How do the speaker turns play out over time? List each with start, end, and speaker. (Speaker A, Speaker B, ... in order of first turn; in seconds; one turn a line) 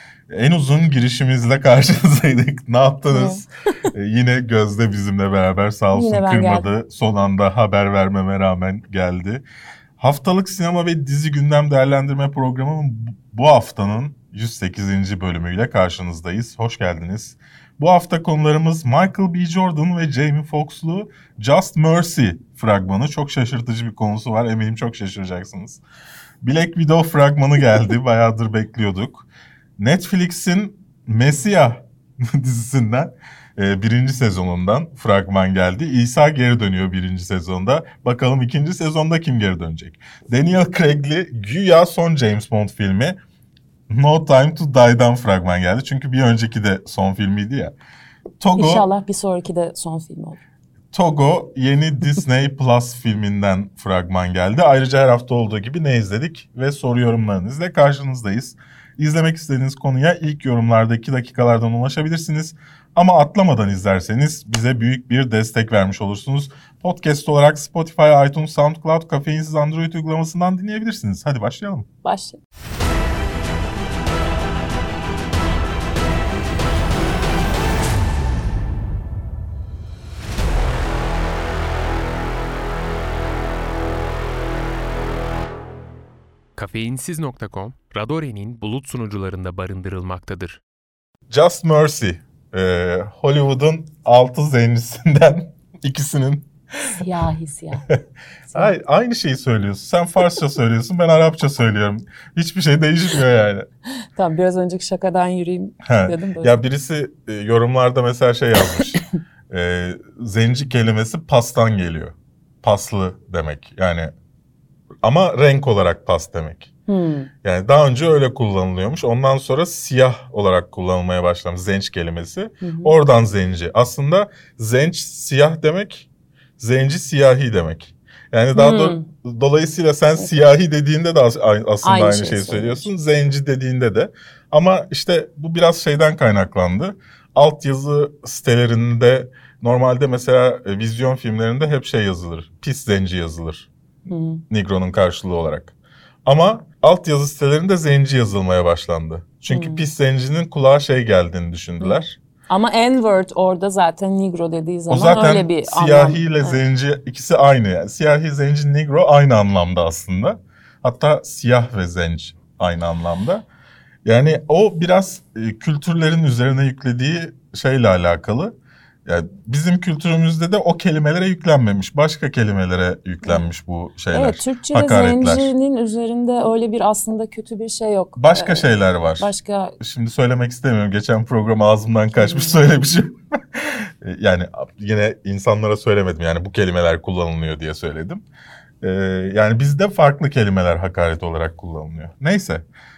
Speaker A: 0.3-9.4
Speaker B: 3.1-3.4
Speaker B: 5.9-6.7
Speaker A: 10.0-25.8
Speaker A: 26.4-43.2
Speaker A: 43.9-47.7
Speaker A: 48.4-48.9
Speaker B: 48.5-50.4
Speaker A: 50.9-71.9
Speaker B: 72.0-72.4
Speaker C: 86.5-90.6
Speaker A: 91.3-97.0
Speaker B: 96.9-97.8
Speaker A: 98.5-103.7
Speaker B: 104.0-106.6
Speaker A: 105.8-114.1
Speaker B: 108.6-109.0
Speaker A: 115.0-116.7
Speaker B: 116.9-117.3
Speaker A: 117.4-126.1
Speaker B: 122.6-122.9
Speaker A: 126.6-143.7
Speaker B: 128.5-129.0
Speaker B: 131.8-132.9
Speaker B: 144.1-144.4
Speaker A: 144.5-145.7
Speaker A: 146.2-152.2
Speaker B: 149.5-149.8
Speaker B: 151.8-156.6
Speaker A: 154.9-163.4
Speaker A: 164.0-168.5
Speaker A: 169.1-175.5
Speaker B: 174.1-178.6
Speaker A: 178.2-188.2
Speaker B: 179.2-179.8
Speaker B: 182.2-182.6
Speaker A: 188.8-192.6